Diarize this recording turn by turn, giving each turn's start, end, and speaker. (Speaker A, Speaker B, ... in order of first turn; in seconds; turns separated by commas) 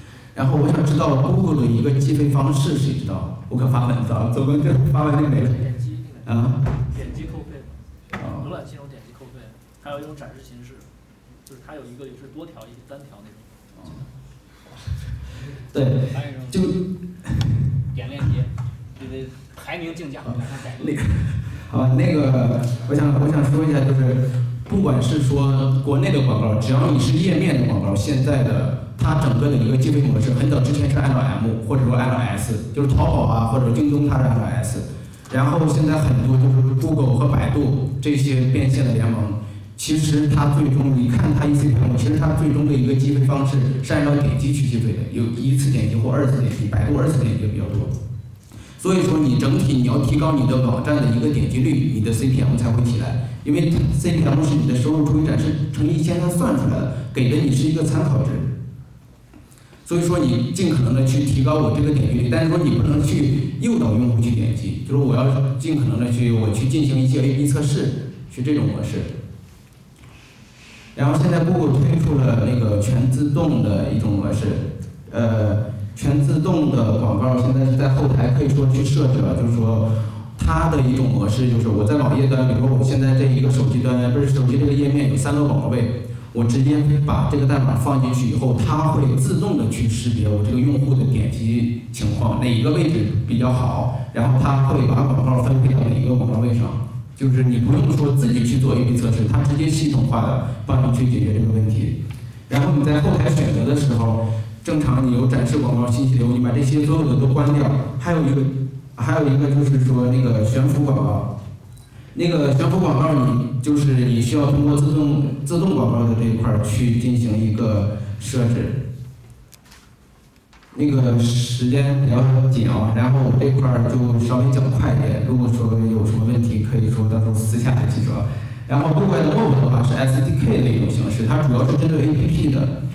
Speaker A: 0.3-6.7, Speaker B: 6.9-7.8, Speaker A: 8.2-8.5, Speaker B: 8.4-10.9, Speaker B: 11.4-13.9, Speaker A: 15.7-17.6, Speaker C: 16.1-16.5, Speaker C: 17.9-21.0, Speaker A: 20.3-47.9, Speaker A: 48.8-58.5, Speaker A: 59.9-69.1, Speaker A: 70.9-102.0, Speaker A: 102.5-111.3, Speaker A: 112.1-118.8, Speaker A: 120.7-132.7